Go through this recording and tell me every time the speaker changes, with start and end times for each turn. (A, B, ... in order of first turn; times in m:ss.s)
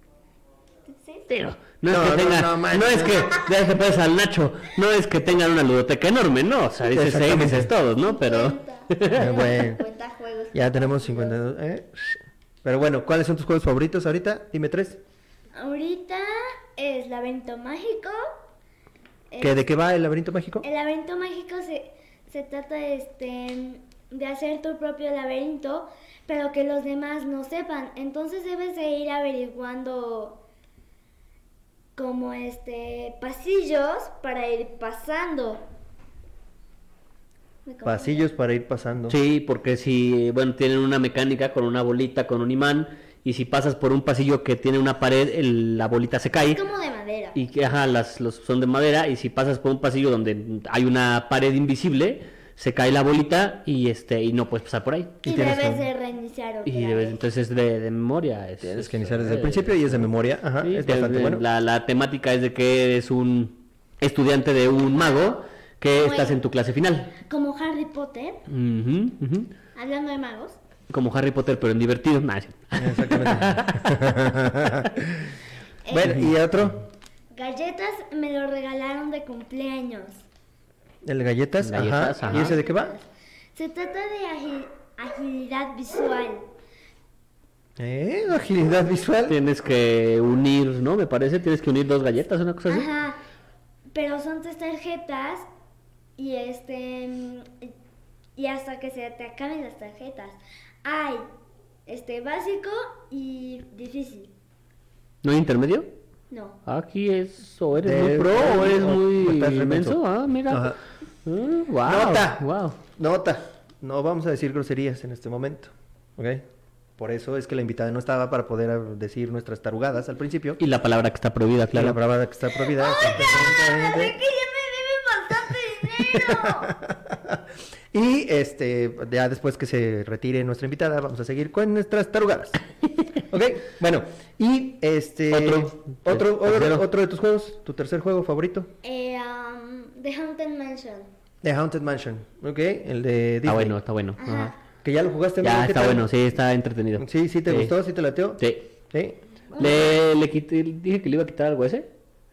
0:00.9-0:01.3 A
0:01.3-0:09.3 B
0:01.9-0:03.4 C
0:06.9-0:07.7 C
0:08.0-0:11.4 A
0:09.1-0:09.8 C
0:10.5-0:15.0 C
0:15.5-0:18.4 A
0:19.3-0:19.6 A
0:19.4-0:20.6 C
0:20.6-0:30.4 A
0:32.0-0:35.6 A
0:37.7-0:38.3 A
0:37.8-0:39.2 C
0:39.1-0:46.6 B
0:46.5-0:47.4 A
0:47.4-0:55.2 B
0:55.2-0:55.9 C
0:55.2-0:57.2 A
0:56.7-1:00.1 B
0:58.6-1:01.4 C
1:00.6-1:07.2 B
1:04.9-1:05.4 A
1:05.9-1:06.4 A
1:07.2-1:08.4 A
1:08.5-1:09.5 B
1:09.8-1:10.6 A
1:10.9-1:13.8 B
1:12.8-1:15.4 C
1:15.9-1:16.2 A
1:15.9-1:16.8 C
1:17.3-1:20.2 A
1:21.0-1:22.9 C
1:21.6-1:22.6 B
1:22.2-1:26.5 A
1:27.8-1:29.4 C
1:29.3-1:32.9 B
1:32.7-1:33.2 A
1:33.9-1:35.5 A
1:36.2-1:37.7 A
1:38.4-1:41.3 A
1:41.9-1:44.3 A
1:45.2-1:45.9 B
1:46.3-1:46.6 A
1:46.7-1:52.8 B
1:47.8-1:50.8 C
1:51.8-1:56.4 C
1:57.0-2:00.6 C
2:00.6-2:02.0 B
2:01.7-2:04.2 C
2:02.6-2:06.8 A
2:06.1-2:07.4 C
2:07.9-2:12.6 C
2:13.3-2:18.7 C
2:15.3-2:16.8 B
2:18.8-2:21.1 A
2:21.4-2:23.8 C
2:23.4-2:24.5 B
2:24.2-2:24.6 A
2:24.8-2:26.1 C
2:25.4-2:27.8 B
2:27.0-2:29.7 C
2:28.4-2:28.7 B
2:29.6-2:31.9 B